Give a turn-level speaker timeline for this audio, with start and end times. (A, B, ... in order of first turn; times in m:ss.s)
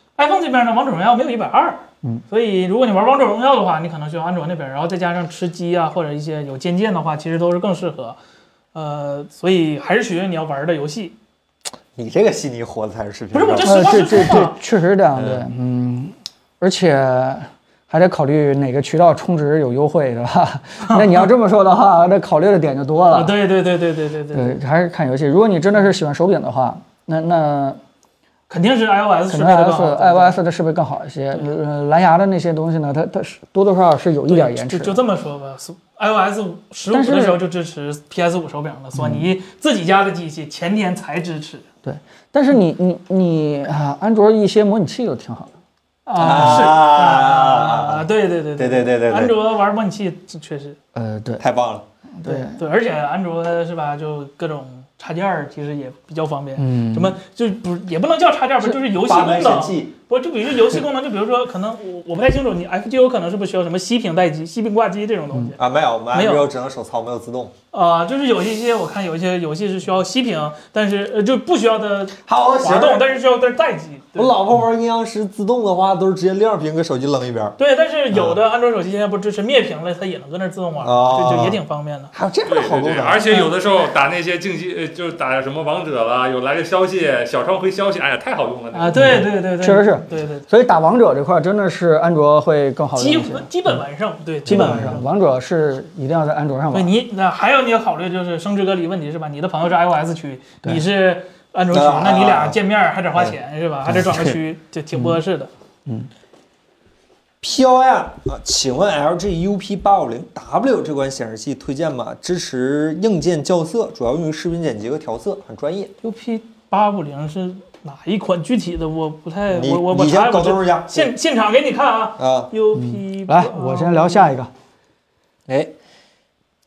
0:00.2-0:08.2 A
0:08.7-0:11.2 A
0:12.0-0:14.2 B
0:13.3-0:14.6 A
0:13.6-0:23.4 C
0:15.2-0:15.4 B
0:20.8-0:21.2 A
0:23.1-0:24.6 A
0:24.3-0:27.8 C
0:28.5-0:30.4 A
0:29.3-0:35.0 C
0:34.3-0:41.7 A
0:36.9-0:37.4 C
0:39.0-0:39.3 C
0:41.8-0:45.5 C
0:46.1-0:50.8 A
0:46.2-0:49.4 B
0:46.2-0:46.7 C
0:50.9-0:51.4 C
0:51.4-0:51.9 B
0:52.2-0:52.6 C
0:52.2-1:05.6 A
0:56.6-0:57.2 C
0:58.9-0:59.9 B
1:05.6-1:07.5 B
1:06.1-1:06.5 A
1:07.7-1:14.4 A
1:12.2-1:13.1 B
1:14.2-1:17.6 B
1:17.6-1:22.1 A
1:18.1-1:18.4 B
1:20.8-1:21.6 B
1:22.1-1:23.3 B
1:22.5-1:29.1 D
1:28.7-1:30.5 A
1:29.0-1:33.5 C
1:33.0-1:35.0 A
1:34.5-1:36.9 C
1:34.5-1:35.0 B
1:36.7-1:45.5 A
1:41.7-1:42.6 B
1:43.9-1:44.4 B
1:44.9-1:45.2 C
1:47.4-1:55.9 B
1:56.0-2:04.4 A
1:59.5-2:01.1 B
2:02.2-2:02.5 B
2:02.7-2:04.5 C
2:05.5-2:05.7 B